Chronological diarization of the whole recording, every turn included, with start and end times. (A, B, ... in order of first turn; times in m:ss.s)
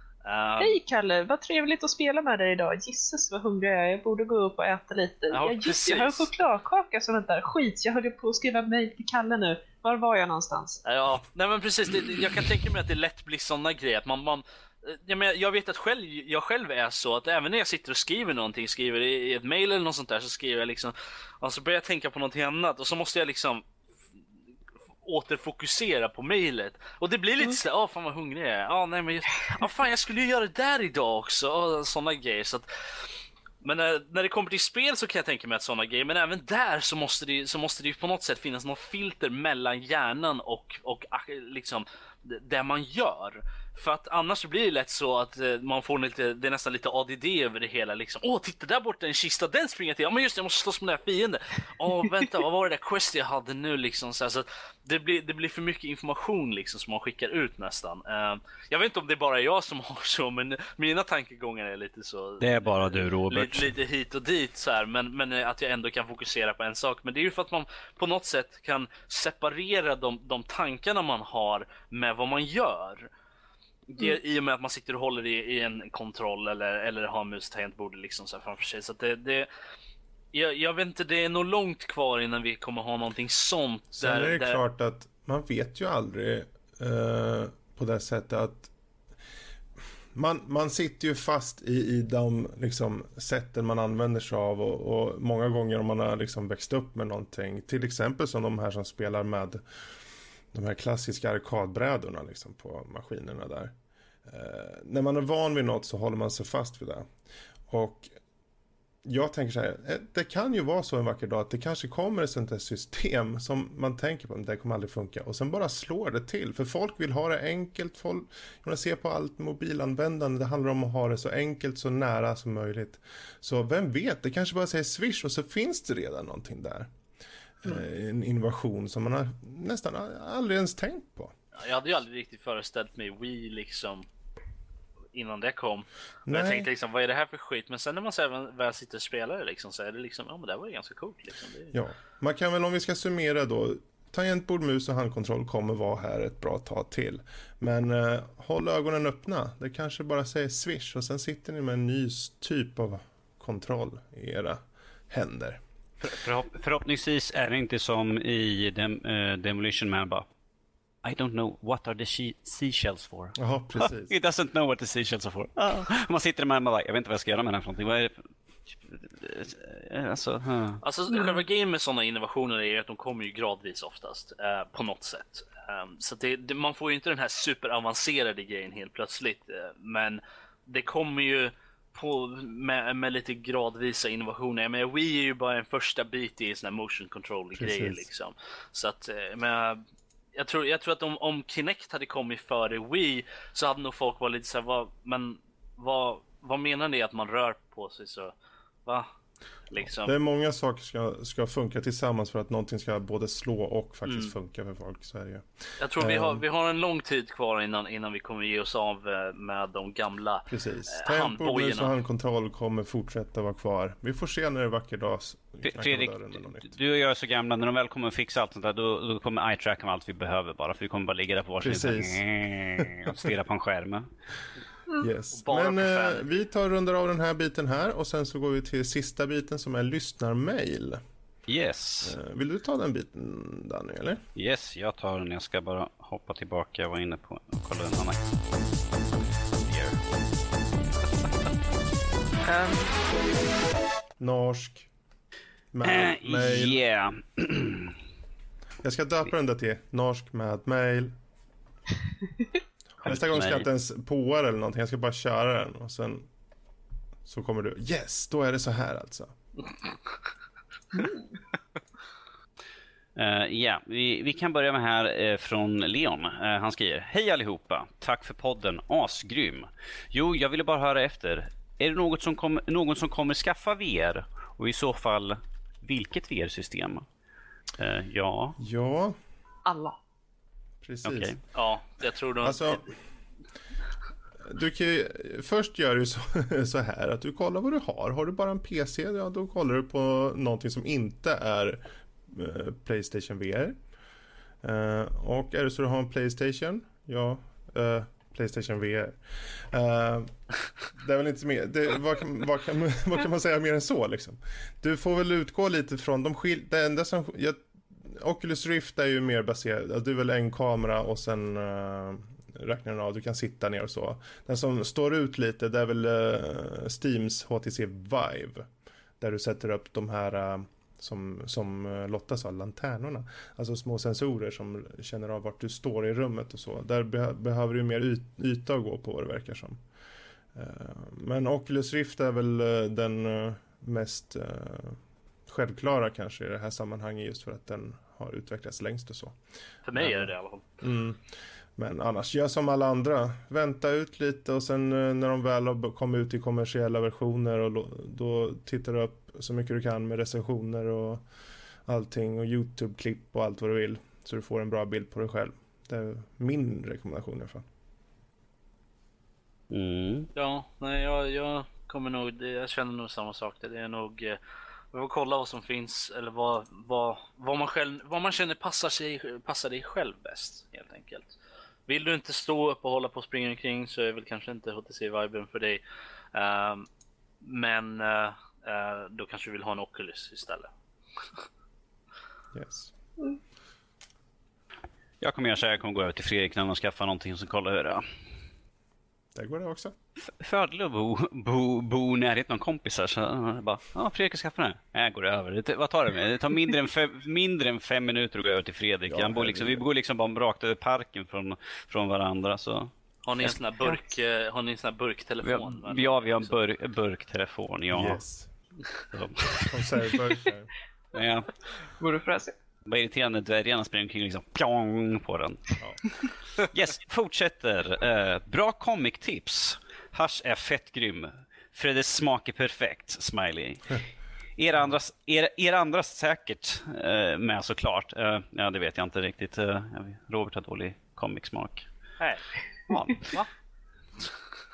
0:00.2-0:00.8 A
0:00.6-0:10.8 B
0:05.3-0:06.3 A
0:10.8-0:23.6 A
0:25.0-0:32.7 A
0:33.6-1:13.1 A
1:02.4-1:03.7 C
1:13.9-1:19.5 A
1:20.3-1:24.6 A
1:24.0-1:28.7 D
1:30.1-1:39.6 D
1:40.5-1:43.7 D
1:44.2-1:47.1 D
1:47.7-1:48.1 D
1:49.0-2:06.9 D
2:07.6-2:11.3 D
2:11.6-2:14.0 A
2:15.1-2:21.7 A
2:16.3-2:16.7 D
2:21.7-2:35.6 D
2:36.0-2:40.3 C
2:41.0-2:48.2 C
2:43.4-2:44.1 D
2:48.8-2:50.8 C
2:50.8-3:09.8 A
3:07.6-3:08.1 D
3:10.3-3:18.3 A
3:19.7-3:20.1 A
3:20.0-3:26.4 D
3:24.0-3:24.3 A
3:25.8-3:31.9 A
3:30.5-3:36.7 D
3:35.6-3:44.1 C
3:41.6-3:42.2 D
3:42.8-3:43.3 D
3:45.0-3:51.0 D
3:45.3-3:46.2 A
3:51.5-3:52.2 C
3:52.0-3:54.2 D
3:54.3-3:58.2 C
3:59.7-4:00.0 C
4:02.5-4:02.9 A
4:04.2-4:04.9 D
4:05.7-4:06.8 D
4:05.8-4:07.9 C
4:08.8-4:11.1 D
4:13.0-4:13.7 C
4:13.0-4:16.3 D
4:17.2-4:19.3 D
4:20.9-4:21.2 B
4:23.2-4:37.0 C
4:37.8-4:38.6 C
4:38.6-4:39.2 D
4:39.6-4:40.0 B
4:40.8-4:41.3 D
4:41.0-4:41.4 C
4:41.5-4:42.8 A
4:42.4-4:42.9 D
4:44.4-4:53.7 D
4:54.6-5:00.3 D
5:00.9-5:18.7 D
5:19.2-5:29.8 D
5:30.5-5:39.4 D
5:39.8-5:40.8 A
5:40.0-5:41.2 D
5:41.8-5:51.2 D
5:51.8-5:57.6 D
5:59.7-6:00.3 C
6:00.3-6:04.4 A
6:04.9-6:11.3 A
6:11.9-6:15.8 A
6:16.3-6:16.9 A
6:17.4-6:20.7 A
6:22.5-6:22.9 D
6:25.2-6:28.0 C
6:29.3-6:29.9 D
6:30.2-6:42.9 C
6:39.1-6:39.8 D
6:43.2-6:46.5 A
6:45.4-6:48.2 C
6:47.9-6:48.5 D
6:49.1-6:50.0 C
6:49.7-6:50.7 D
6:51.1-6:51.5 C
6:52.0-6:52.6 B
6:52.8-6:55.8 C
6:56.6-7:04.0 C
7:04.6-7:11.9 C
7:12.2-7:12.4 A
7:12.9-7:13.4 C
7:13.1-7:13.5 A